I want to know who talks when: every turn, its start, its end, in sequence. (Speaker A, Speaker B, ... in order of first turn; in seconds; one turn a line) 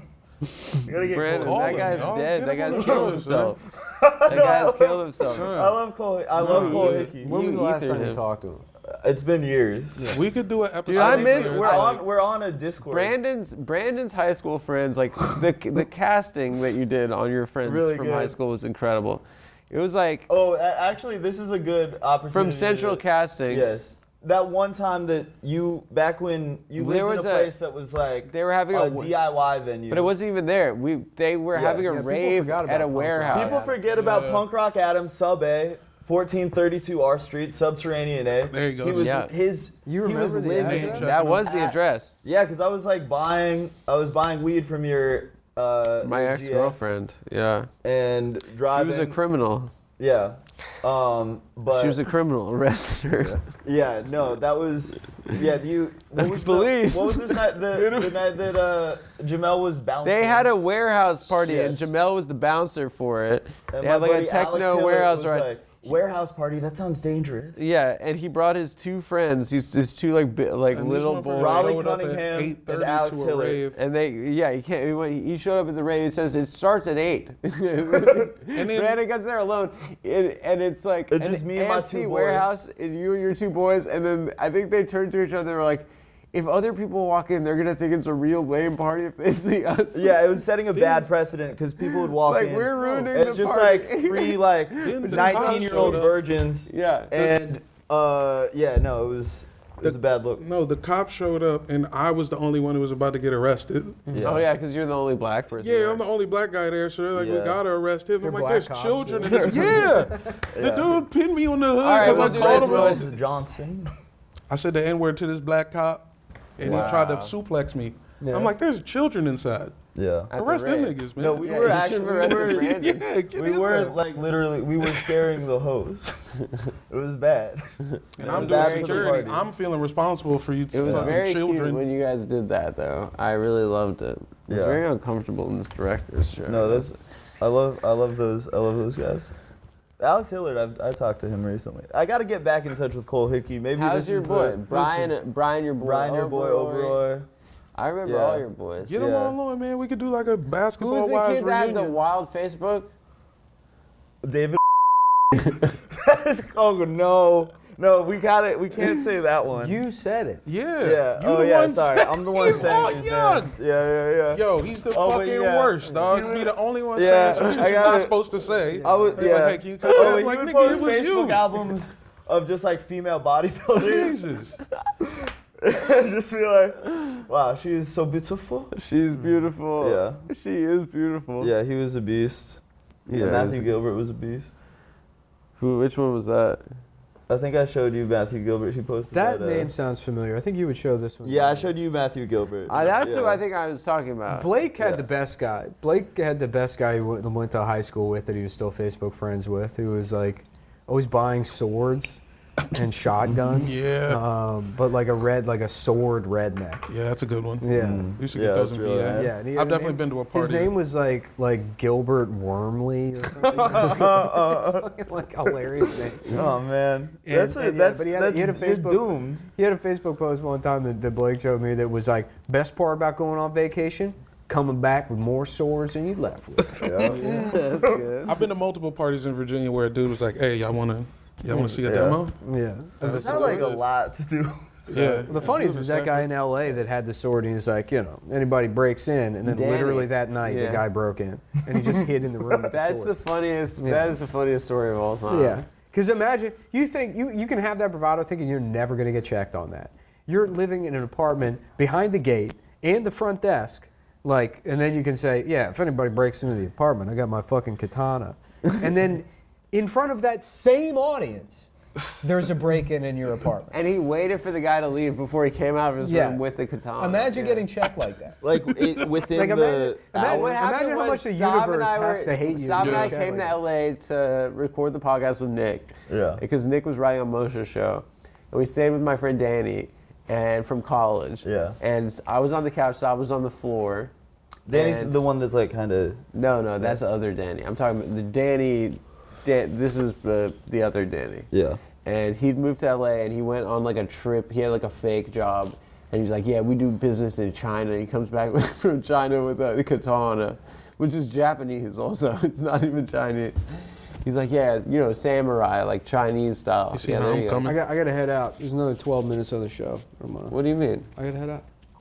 Speaker A: 0.7-2.1
Speaker B: 1.0-3.6
Speaker C: 1.4-3.6
Speaker A: 2.7-3.2
Speaker A: 3.8-7.3
Speaker B: 4.2-5.5
Speaker C: 5.2-5.8
Speaker C: 6.4-7.1
Speaker B: 6.4-8.2
Speaker D: 7.0-8.7
Speaker A: 8.9-10.2
Speaker C: 10.0-11.9
Speaker B: 10.8-12.1
Speaker A: 10.9-13.2
Speaker B: 12.9-20.3
Speaker A: 17.6-18.4
Speaker A: 20.3-30.1
Speaker B: 22.3-23.7
Speaker B: 26.8-27.5
Speaker B: 28.2-29.2
Speaker B: 29.9-33.7
Speaker A: 31.5-31.9
Speaker D: 31.8-33.8
Speaker A: 33.3-46.8
Speaker C: 33.9-34.5
Speaker C: 38.5-39.2
Speaker B: 38.9-39.3
Speaker D: 39.9-41.1
Speaker C: 40.6-41.5
Speaker B: 41.0-42.1
Speaker B: 46.0-47.7
Speaker A: 47.8-49.2
Speaker B: 48.6-49.7
Speaker A: 50.0-52.1
Speaker B: 51.7-53.4
Speaker A: 53.6-60.5
Speaker B: 56.1-58.4
Speaker B: 60.0-65.5
Speaker A: 61.3-61.9
Speaker A: 63.7-67.6
Speaker B: 67.5-71.8
Speaker C: 70.7-73.8
Speaker A: 71.3-73.6
Speaker B: 73.7-91.0
Speaker C: 78.5-79.0
Speaker A: 81.1-82.6
Speaker A: 89.9-100.4
Speaker B: 91.8-96.0
Speaker C: 94.8-96.2
Speaker B: 96.7-97.2
Speaker C: 99.8-104.1
Speaker A: 104.1-104.5
Speaker B: 104.1-106.0
Speaker C: 105.6-113.2
Speaker A: 107.1-107.6
Speaker D: 108.2-110.4
Speaker A: 109.2-109.9
Speaker A: 110.5-111.0
Speaker B: 111.8-113.1
Speaker A: 112.0-113.9
Speaker C: 114.5-119.7
Speaker B: 116.6-117.3
Speaker D: 118.2-118.5
Speaker A: 120.0-120.3
Speaker B: 120.3-123.0
Speaker C: 120.3-124.1
Speaker A: 121.2-126.2
Speaker C: 124.8-125.3
Speaker A: 126.9-129.4
Speaker B: 128.2-129.3
Speaker C: 128.2-131.8
Speaker B: 130.7-136.8
Speaker A: 130.8-131.2
Speaker A: 134.5-134.8
Speaker A: 136.4-139.3
Speaker A: 140.0-145.1
Speaker B: 143.7-147.0
Speaker A: 145.8-147.3
Speaker B: 147.7-149.0
Speaker A: 148.0-149.4
Speaker C: 148.8-152.0
Speaker B: 150.8-152.9
Speaker A: 154.2-159.8
Speaker D: 159.5-160.4
Speaker C: 160.4-163.6
Speaker A: 160.8-168.2
Speaker C: 164.3-171.8
Speaker D: 168.7-169.3
Speaker A: 168.8-174.3
Speaker C: 173.8-174.6
Speaker A: 175.0-178.8
Speaker B: 178.8-181.5
Speaker A: 179.8-180.2
Speaker A: 181.4-184.5
Speaker B: 183.1-183.7
Speaker B: 185.6-186.6
Speaker A: 187.3-189.7
Speaker D: 189.1-191.7
Speaker A: 191.2-193.4
Speaker B: 192.7-194.5
Speaker D: 194.3-202.2
Speaker A: 194.8-195.0
Speaker D: 202.7-206.9
Speaker A: 203.2-203.6
Speaker C: 203.5-204.2
Speaker C: 206.9-210.7
Speaker D: 207.6-208.1
Speaker A: 207.7-209.3
Speaker D: 209.1-216.4
Speaker A: 213.4-214.9
Speaker A: 216.2-219.5
Speaker D: 217.3-227.2
Speaker A: 226.7-227.6
Speaker C: 227.1-227.6
Speaker B: 227.1-228.4
Speaker C: 228.2-232.3
Speaker A: 231.8-232.2
Speaker D: 232.4-233.6
Speaker C: 233.0-233.8
Speaker A: 233.0-235.6
Speaker C: 234.9-236.3
Speaker D: 235.3-243.2
Speaker B: 239.4-240.8
Speaker B: 242.7-245.6
Speaker D: 243.8-244.1
Speaker D: 245.3-263.7
Speaker B: 263.7-267.7
Speaker D: 266.0-266.4
Speaker D: 267.0-268.5
Speaker A: 268.4-270.5
Speaker D: 269.1-273.6
Speaker B: 270.1-284.1
Speaker C: 272.8-273.2
Speaker A: 276.1-276.4
Speaker A: 281.4-281.8
Speaker A: 284.6-286.3
Speaker B: 284.7-285.1
Speaker B: 286.3-291.5
Speaker A: 291.5-291.8
Speaker B: 292.0-307.7
Speaker C: 306.9-307.8
Speaker D: 307.6-310.5
Speaker B: 310.5-311.1
Speaker D: 311.1-311.6